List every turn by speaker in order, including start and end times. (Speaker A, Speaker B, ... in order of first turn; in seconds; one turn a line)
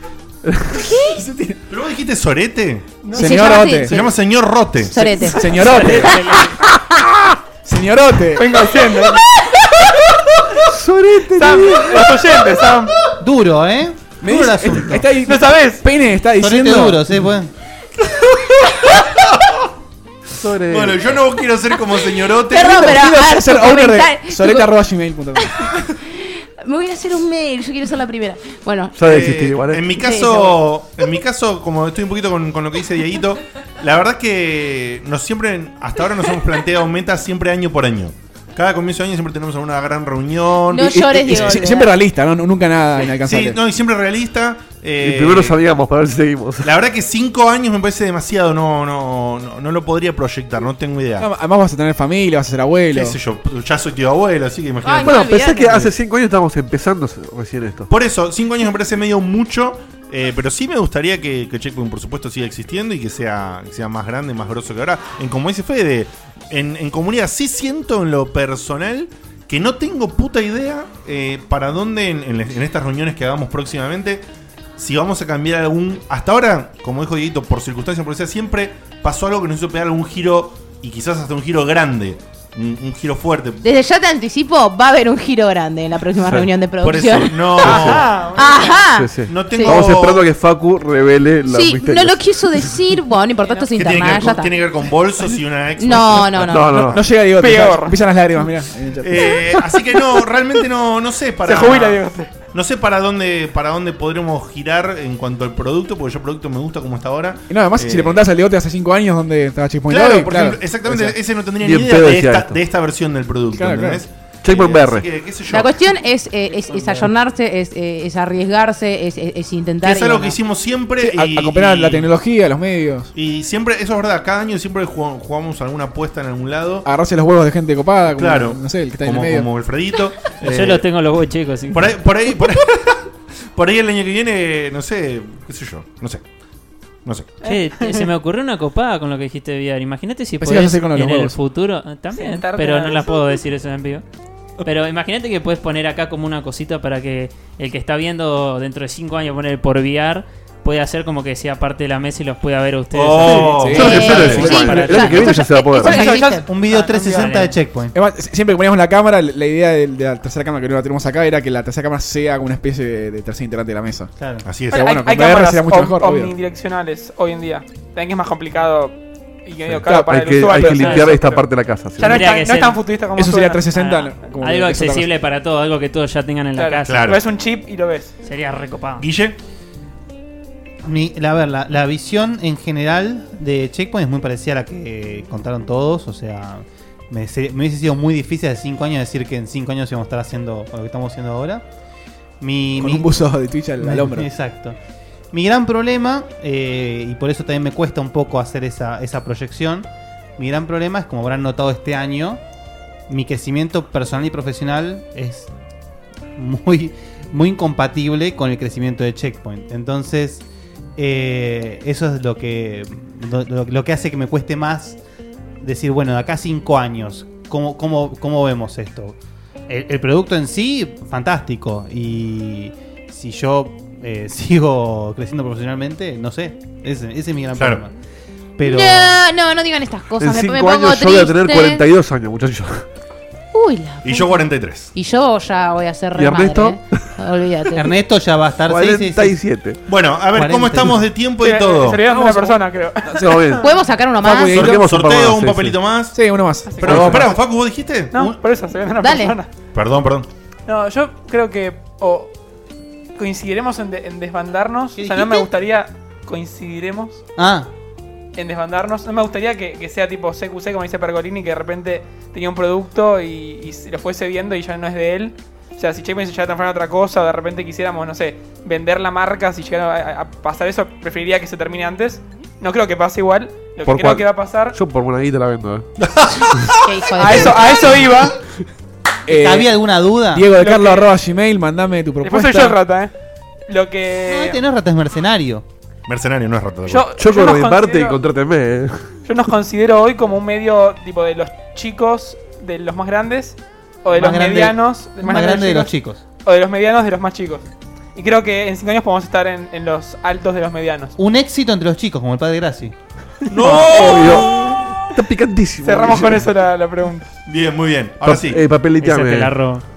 Speaker A: 0.8-1.2
Speaker B: 1.0-1.6
Speaker C: 1.7-3.0
Speaker D: 3.0-3.5
Speaker A: 3.1-4.2
Speaker B: 3.1-4.0
Speaker C: 3.9-5.1
Speaker A: 4.9-5.8
Speaker B: 5.2-6.3
Speaker E: 5.5-6.6
Speaker B: 7.6-8.5
Speaker D: 8.3-9.2
Speaker F: 10.7-12.0
Speaker D: 11.3-12.9
Speaker G: 13.2-15.1
Speaker B: 14.2-17.1
Speaker D: 15.2-15.9
Speaker G: 16.4-17.5
Speaker C: 19.0-19.5
Speaker F: 20.4-21.0
Speaker C: 20.7-23.0
Speaker A: 22.5-24.7
Speaker B: 22.6-25.6
Speaker A: 25.4-29.0
Speaker F: 29.0-29.9
Speaker C: 29.0-41.6
Speaker A: 29.9-30.7
Speaker A: 40.7-41.9
Speaker B: 40.9-43.6
Speaker C: 43.2-45.6
Speaker F: 45.0-46.7
Speaker C: 46.6-51.3
Speaker B: 51.2-53.2
Speaker C: 52.9-55.3
Speaker A: 54.8-55.9
Speaker F: 55.0-57.9
Speaker C: 57.9-74.2
Speaker C: 74.8-83.6
Speaker A: 83.6-87.8
Speaker C: 86.8-88.4
Speaker D: 87.6-88.8
Speaker F: 87.6-88.0
Speaker A: 88.3-89.8
Speaker F: 88.9-92.2
Speaker C: 89.3-90.3
Speaker A: 91.5-94.6
Speaker D: 93.4-94.2
Speaker C: 93.8-96.7
Speaker A: 95.8-96.9
Speaker F: 96.4-97.1
Speaker B: 96.8-99.5
Speaker D: 97.3-98.0
Speaker C: 99.0-108.2
Speaker D: 101.4-102.3
Speaker B: 107.5-111.1
Speaker C: 109.9-115.8
Speaker F: 111.6-112.6
Speaker B: 113.5-114.0
Speaker F: 114.4-115.1
Speaker A: 115.5-120.4
Speaker G: 116.8-117.0
Speaker C: 119.8-122.1
Speaker B: 121.0-123.1
Speaker C: 123.1-126.9
Speaker B: 126.8-129.5
Speaker C: 128.1-130.9
Speaker E: 130.4-132.0
Speaker C: 131.7-136.2
Speaker C: 137.1-137.3
Speaker D: 137.4-138.1
Speaker E: 137.4-144.0
Speaker B: 140.4-141.4
Speaker D: 142.1-143.4
Speaker E: 144.6-155.2
Speaker C: 152.9-154.5
Speaker B: 153.5-155.4
Speaker F: 153.7-156.1
Speaker A: 153.8-156.4
Speaker D: 155.7-157.4
Speaker G: 155.9-157.9
Speaker E: 156.8-157.5
Speaker B: 157.9-164.1
Speaker G: 164.2-164.4
Speaker C: 164.4-164.9
Speaker D: 164.7-173.7
Speaker B: 164.7-166.3
Speaker B: 169.9-170.8
Speaker F: 170.0-172.2
Speaker E: 170.7-171.1
Speaker E: 172.0-172.8
Speaker B: 173.2-175.1
Speaker E: 173.7-177.2
Speaker D: 176.6-178.2
Speaker C: 176.9-177.2
Speaker E: 178.2-179.1
Speaker C: 179.0-179.4
Speaker G: 180.8-191.6
Speaker G: 192.4-193.1
Speaker B: 192.8-194.3
Speaker G: 193.8-194.8
Speaker G: 195.3-199.9
Speaker G: 200.4-202.4
Speaker G: 203.1-205.5
Speaker G: 206.4-210.4
Speaker G: 211.0-215.0
Speaker G: 215.6-219.2
Speaker G: 219.7-227.9
Speaker G: 228.6-229.2
Speaker A: 228.6-231.8
Speaker F: 230.2-232.8
Speaker A: 233.5-234.4
Speaker C: 234.0-234.9
Speaker A: 234.9-237.9
Speaker F: 236.2-237.1
Speaker G: 237.8-239.4
Speaker F: 238.7-239.8
Speaker C: 239.9-242.1
Speaker G: 240.3-241.1
Speaker D: 241.4-243.7
Speaker B: 242.1-242.6
Speaker F: 243.1-243.6
Speaker A: 243.6-244.6
Speaker B: 244.2-244.8
Speaker F: 244.5-245.8
Speaker C: 244.5-246.2
Speaker B: 246.1-247.3
Speaker D: 246.7-247.4
Speaker C: 246.8-248.4
Speaker F: 246.8-247.2
Speaker D: 248.1-249.5
Speaker A: 249.0-249.4
Speaker C: 249.7-250.3
Speaker D: 250.7-252.3
Speaker D: 253.2-257.2
Speaker G: 255.0-255.5
Speaker G: 257.4-257.7
Speaker D: 258.4-274.8
Speaker F: 273.9-275.9
Speaker C: 276.0-276.7
Speaker A: 276.8-277.8
Speaker D: 277.2-278.4
Speaker B: 279.3-279.8
Speaker G: 279.3-280.5
Speaker B: 280.3-282.8
Speaker D: 280.5-281.2
Speaker D: 282.2-283.1
Speaker D: 283.7-284.6
Speaker G: 284.3-285.6
Speaker C: 286.1-287.1
Speaker D: 286.9-288.2
Speaker F: 287.2-289.1
Speaker D: 289.3-301.1
Speaker G: 294.1-296.2
Speaker G: 301.2-302.9
Speaker C: 303.5-304.5
Speaker D: 303.6-304.4
Speaker F: 303.9-306.5
Speaker D: 305.8-307.3
Speaker C: 307.5-308.6
Speaker F: 308.2-309.6
Speaker E: 309.0-309.8